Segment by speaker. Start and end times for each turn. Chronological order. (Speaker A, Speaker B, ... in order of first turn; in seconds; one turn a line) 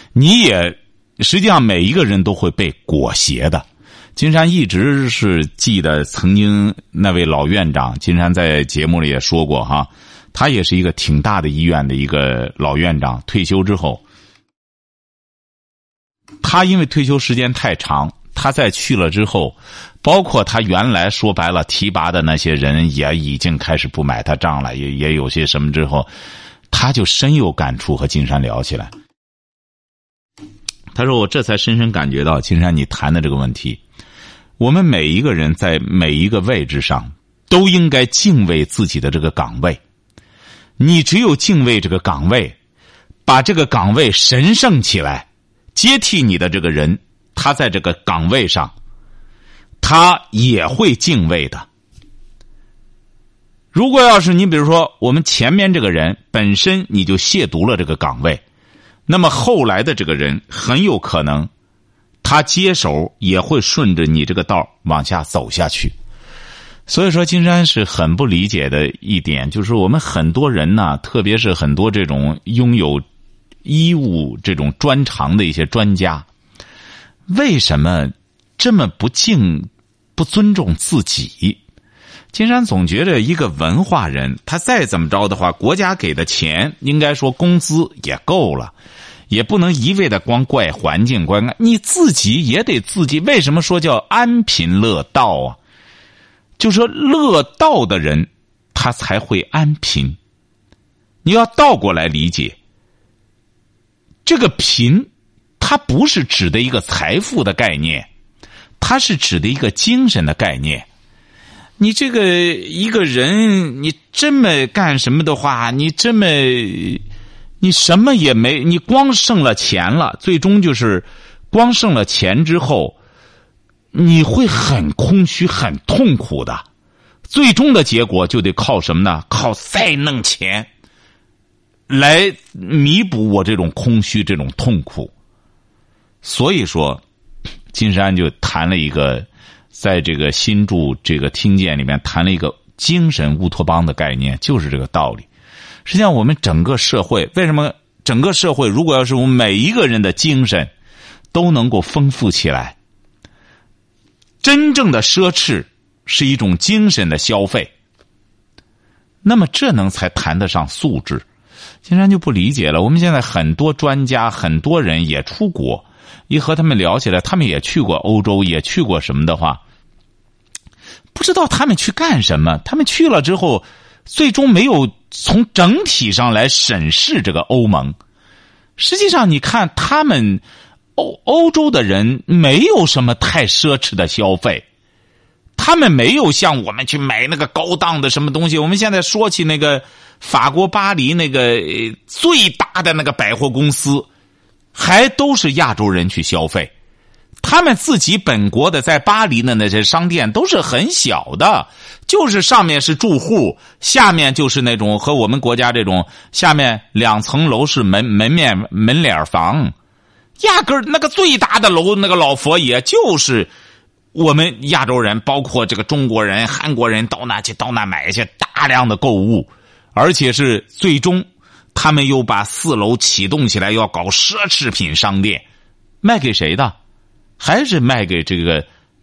Speaker A: 0.1-14.0
Speaker A: 16.4-26.1
Speaker A: 26.7-28.9
Speaker A: 30.9-33.8
Speaker A: 34.6-39.8
Speaker A: 40.8-42.5
Speaker A: 43.2-48.7
Speaker A: 49.8-51.6
Speaker A: 53.7-58.4
Speaker A: 59.1-61.5
Speaker A: 62.2-65.9
Speaker A: 66.9-73.0
Speaker A: 73.6-76.2
Speaker A: 77.3-81.6
Speaker A: 82.3-88.7
Speaker A: 89.3-95.6
Speaker A: 96.6-100.2
Speaker A: 101.2-102.6
Speaker A: 104.2-108.1
Speaker A: 108.8-110.9
Speaker A: 111.8-117.0
Speaker A: 117.6-123.0
Speaker A: 123.9-126.6
Speaker A: 127.3-130.7
Speaker A: 131.9-135.1
Speaker A: 136.2-137.0
Speaker A: 137.7-145.3
Speaker A: 145.8-150.7
Speaker A: 151.3-152.7
Speaker A: 154.4-157.7
Speaker A: 159.2-161.2
Speaker A: 161.8-169.6
Speaker A: 171.1-177.9
Speaker A: 178.8-180.4
Speaker A: 180.9-184.7
Speaker A: 185.6-194.1
Speaker A: 194.7-196.7
Speaker A: 197.4-209.7
Speaker A: 210.4-213.5
Speaker A: 214.1-225.4
Speaker A: 226.0-226.8
Speaker A: 227.4-228.7